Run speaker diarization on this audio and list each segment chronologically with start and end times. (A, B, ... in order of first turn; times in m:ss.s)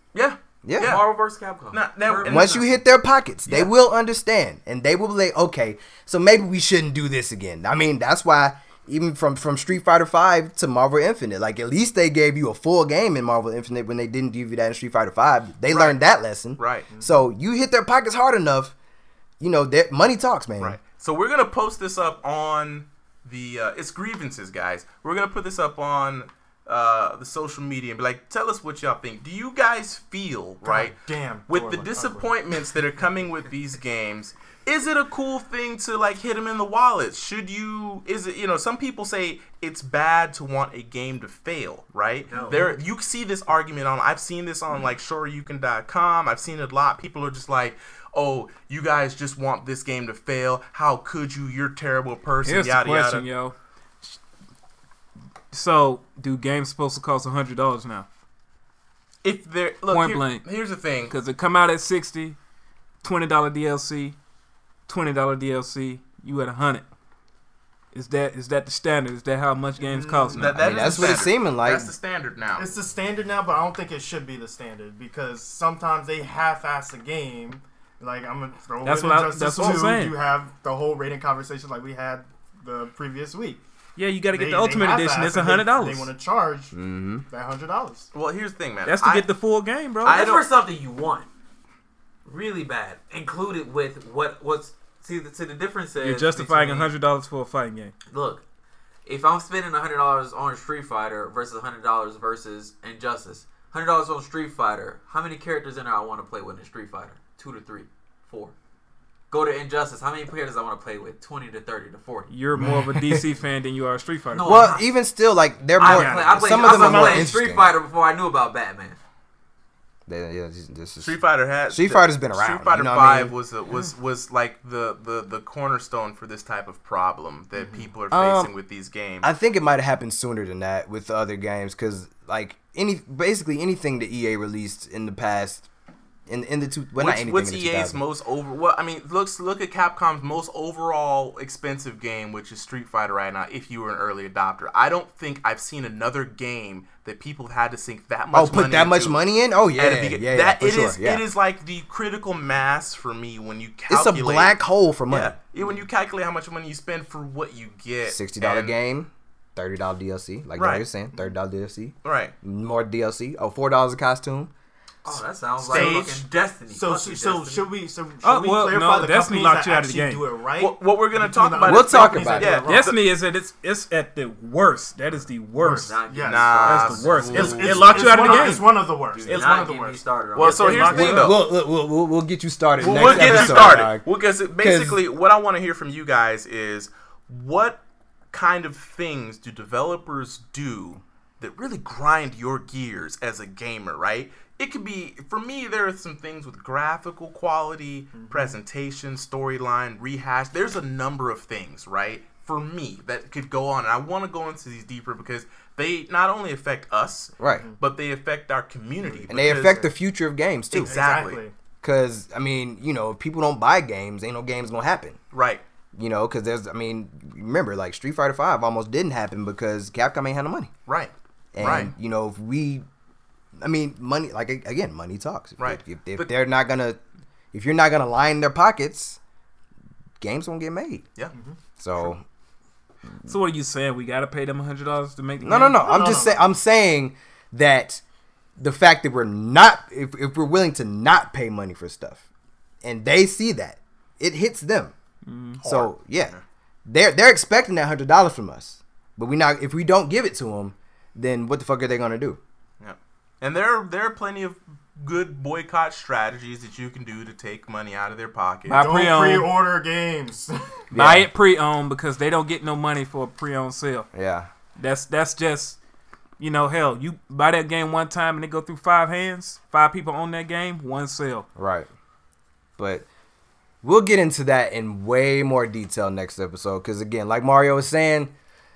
0:00.1-0:01.0 A
0:00.6-0:01.0 B
0:00.8-0:02.8 C
0:01.7-0:02.6 A
0:02.2-0:18.7 B
0:15.7-0:16.0 A
0:16.6-0:16.9 A
0:16.9-0:17.2 D
0:19.4-0:20.8 B
0:20.6-0:30.9 A
0:30.6-0:32.6 D
0:31.5-0:53.2 A
0:42.3-0:42.7 C
0:52.4-0:54.2 E
0:55.5-0:58.1 E
0:59.2-1:01.1 A
0:59.9-1:00.4 E
1:01.1-1:02.4 E
1:03.0-1:04.2 E
1:04.9-1:06.8 E
1:07.9-1:10.8 E
1:09.8-1:10.6 D
1:10.3-1:12.7 A
1:10.4-1:11.9 B
1:12.6-1:23.6 D
1:18.8-1:20.2 E
1:19.6-1:19.9 A
1:24.0-1:26.1 E
1:24.3-1:26.7 D
1:26.7-1:27.2 B
1:27.3-1:28.1 D
1:28.1-1:29.2 A
1:28.8-1:30.2 E
1:30.0-1:30.5 A
1:30.0-1:31.3 C
1:32.2-1:36.9 C
1:36.0-1:37.9 E
1:38.1-1:38.4 C
1:39.0-1:48.5 C
1:49.3-1:52.3 C
1:52.3-1:54.7 E
1:52.6-1:52.8 D
1:52.6-1:53.2 B
1:54.3-1:54.9 C
1:54.4-1:57.7 B
1:55.8-1:59.0 C
1:55.8-1:57.3 D
2:00.1-2:01.2 B
2:01.0-2:09.3 A
2:01.7-2:03.3 B
2:07.6-2:07.9 D
2:08.1-2:08.5 B
2:09.2-2:15.6 B
2:16.3-2:18.0 B
2:17.0-2:29.2 A
2:28.3-2:31.2 B
2:29.7-2:34.6 A
2:33.9-2:35.3 B
2:35.1-2:38.7 A
2:38.1-2:44.5 B
2:40.6-2:40.8 A
2:42.0-2:42.3 A
2:45.0-2:47.7 C
2:45.6-2:46.3 A
2:45.7-2:53.0 D
2:48.2-2:50.2 E
2:50.6-2:53.0 A
2:51.6-2:52.6 B
2:52.6-2:56.0 E
2:55.6-2:56.6 D
2:55.8-2:58.5 C
2:56.2-2:58.6 A
2:56.6-2:58.7 E
2:57.3-3:01.3 D
2:59.1-3:01.1 C
2:59.2-2:59.6 E
3:00.3-3:01.4 A
3:00.6-3:01.2 E
3:00.9-3:04.1 B
3:02.8-3:07.8 A
3:02.9-3:03.7 C
3:04.6-3:05.0 B
3:08.3-3:29.9 A
3:18.1-3:18.6 D
3:27.4-3:27.6 B
3:27.5-3:27.8 D
3:29.0-3:29.8 D
3:29.3-3:31.0 B
3:30.7-3:31.4 A
3:30.8-3:31.5 D
3:31.8-3:35.2 B
3:35.3-3:35.6 A
3:35.9-3:40.7 B
3:40.9-3:41.9 A
3:41.5-3:42.8 B
3:43.6-3:47.0 B
3:45.6-3:46.2 A
3:47.5-3:49.2 B
3:50.2-3:51.0 B
3:51.8-3:52.2 B
3:53.2-3:55.8 E
3:55.4-3:58.0 B
3:55.8-3:56.4 D
3:58.6-4:02.2 B
4:02.8-4:04.9 B
4:05.2-4:05.6 E
4:05.6-4:06.4 A
4:05.6-4:06.3 B
4:06.8-4:12.4 B
4:12.8-4:18.8 A
4:18.7-4:19.5 E
4:18.7-4:20.5 D
4:20.9-4:21.3 B
4:20.9-4:24.1 E
4:24.1-4:24.5 B
4:24.8-4:25.8 E
4:26.4-4:31.4 E
4:31.6-4:31.9 B
4:32.8-4:33.0 B
4:33.8-4:38.3 B